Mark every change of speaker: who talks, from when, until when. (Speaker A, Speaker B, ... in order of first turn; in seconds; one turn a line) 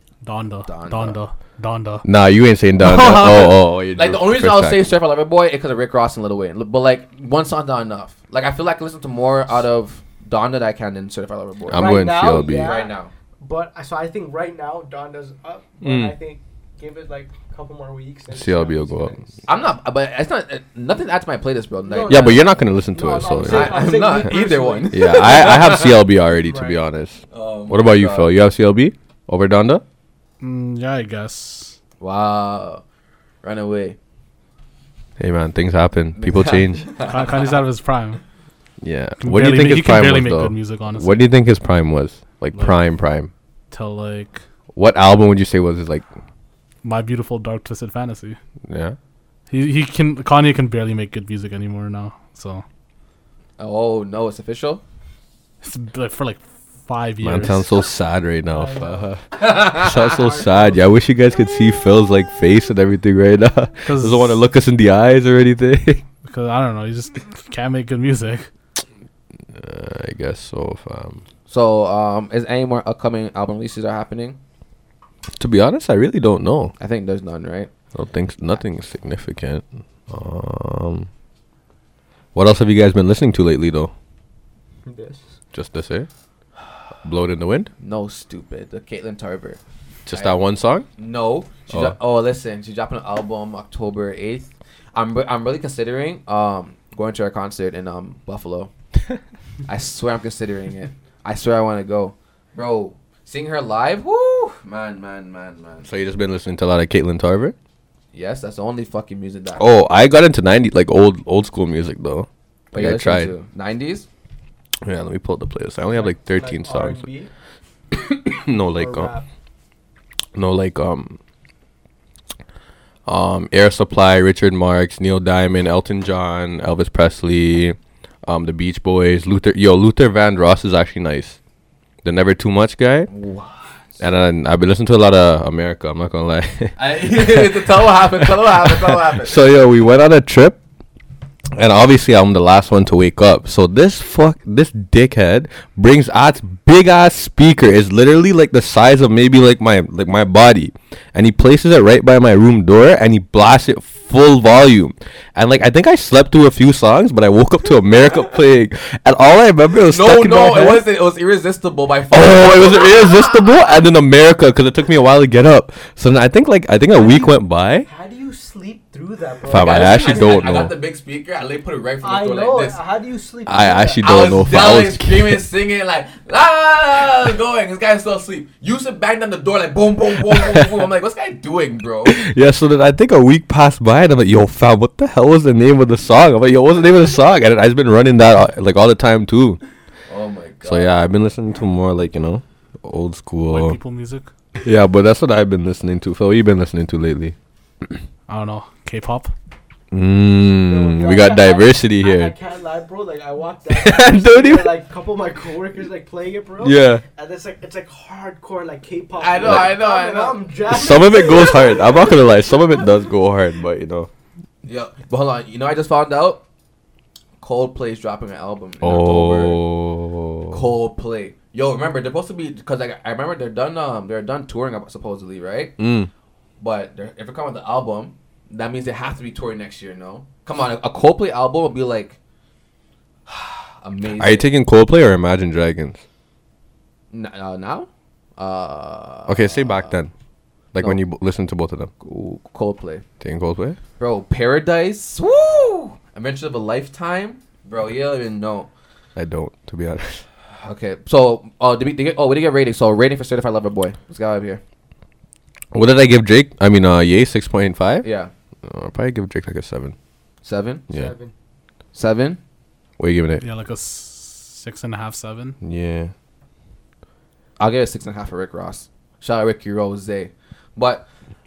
Speaker A: 0.2-2.0
Speaker B: 0.7-1.2
Speaker C: 2.0-4.8
Speaker A: 2.8-3.6
Speaker B: 3.1-13.1
Speaker C: 11.7-12.7
Speaker D: 11.7-19.5
Speaker C: 15.8-16.1
Speaker C: 18.3-19.2
Speaker B: 19.5-22.4
Speaker D: 21.9-25.4
Speaker C: 22.1-23.9
Speaker B: 23.4-26.1
Speaker C: 24.9-29.8
Speaker D: 26.4-26.8
Speaker B: 27.3-28.3
Speaker A: 30.4-31.8
Speaker B: 32.0-32.8
Speaker B: 33.4-34.0
Speaker C: 35.2-36.9
Speaker B: 36.2-37.6
Speaker A: 37.0-38.2
Speaker C: 38.8-43.3
Speaker A: 39.2-41.3
Speaker A: 43.7-44.4
Speaker C: 44.8-46.0
Speaker A: 46.8-48.4
Speaker C: 48.6-49.0
Speaker A: 49.5-52.6
Speaker B: 53.6-54.8
Speaker A: 55.6-57.7
Speaker C: 57.2-66.0
Speaker D: 58.5-59.1
Speaker B: 59.5-59.8
Speaker D: 59.9-60.9
Speaker A: 63.9-64.4
Speaker A: 66.2-68.5
Speaker C: 69.5-71.2
Speaker B: 71.5-74.4
Speaker C: 75.4-76.7
Speaker B: 76.8-77.7
Speaker C: 78.0-81.1
Speaker C: 82.3-83.9
Speaker D: 84.9-85.3
Speaker C: 85.5-86.1
Speaker C: 87.0-87.7
Speaker B: 87.8-90.4
Speaker C: 90.1-90.9
Speaker B: 91.0-98.7
Speaker C: 91.7-92.0
Speaker B: 99.7-105.9
Speaker C: 105.8-107.5
Speaker B: 108.1-109.7
Speaker C: 109.6-113.3
Speaker B: 112.7-114.1
Speaker C: 114.8-117.1
Speaker D: 115.9-117.3
Speaker C: 117.9-119.1
Speaker D: 118.7-119.3
Speaker C: 120.3-121.2
Speaker C: 123.1-131.4
Speaker C: 132.0-133.1
Speaker B: 133.1-134.0
Speaker C: 134.0-137.7
Speaker B: 136.8-139.4
Speaker C: 138.3-140.6
Speaker C: 141.6-160.9
Speaker B: 159.8-163.9
Speaker C: 162.1-167.9
Speaker D: 166.9-170.6
Speaker C: 169.5-170.7
Speaker B: 169.5-172.8
Speaker D: 172.0-174.1
Speaker C: 173.5-175.4
Speaker B: 174.0-182.2
Speaker C: 180.3-180.8
Speaker C: 182.1-189.6
Speaker B: 190.1-190.9
Speaker C: 190.6-193.8
Speaker A: 193.5-194.3
Speaker C: 194.6-197.4
Speaker A: 198.3-199.3
Speaker C: 199.9-202.3
Speaker D: 200.6-212.9
Speaker C: 203.7-204.7
Speaker C: 206.6-207.0
Speaker B: 209.2-210.4
Speaker C: 209.4-209.7
Speaker C: 210.7-214.1
Speaker B: 214.6-216.4
Speaker B: 217.4-219.6
Speaker C: 218.8-220.6
Speaker B: 220.5-225.7
Speaker C: 225.8-226.1
Speaker B: 226.6-232.2
Speaker B: 233.3-234.5
Speaker C: 234.2-236.0
Speaker B: 237.1-239.9
Speaker C: 239.3-240.1
Speaker C: 240.7-241.9
Speaker B: 242.0-243.0
Speaker C: 243.2-243.8
Speaker B: 244.0-248.7
Speaker C: 249.2-250.2
Speaker B: 250.6-254.6
Speaker C: 255.7-258.1
Speaker B: 258.0-258.3
Speaker C: 258.6-259.9
Speaker B: 260.4-260.8
Speaker D: 260.9-261.3
Speaker B: 261.9-262.4
Speaker C: 263.0-263.4
Speaker A: 263.4-265.6
Speaker C: 265.6-266.1
Speaker B: 267.6-271.1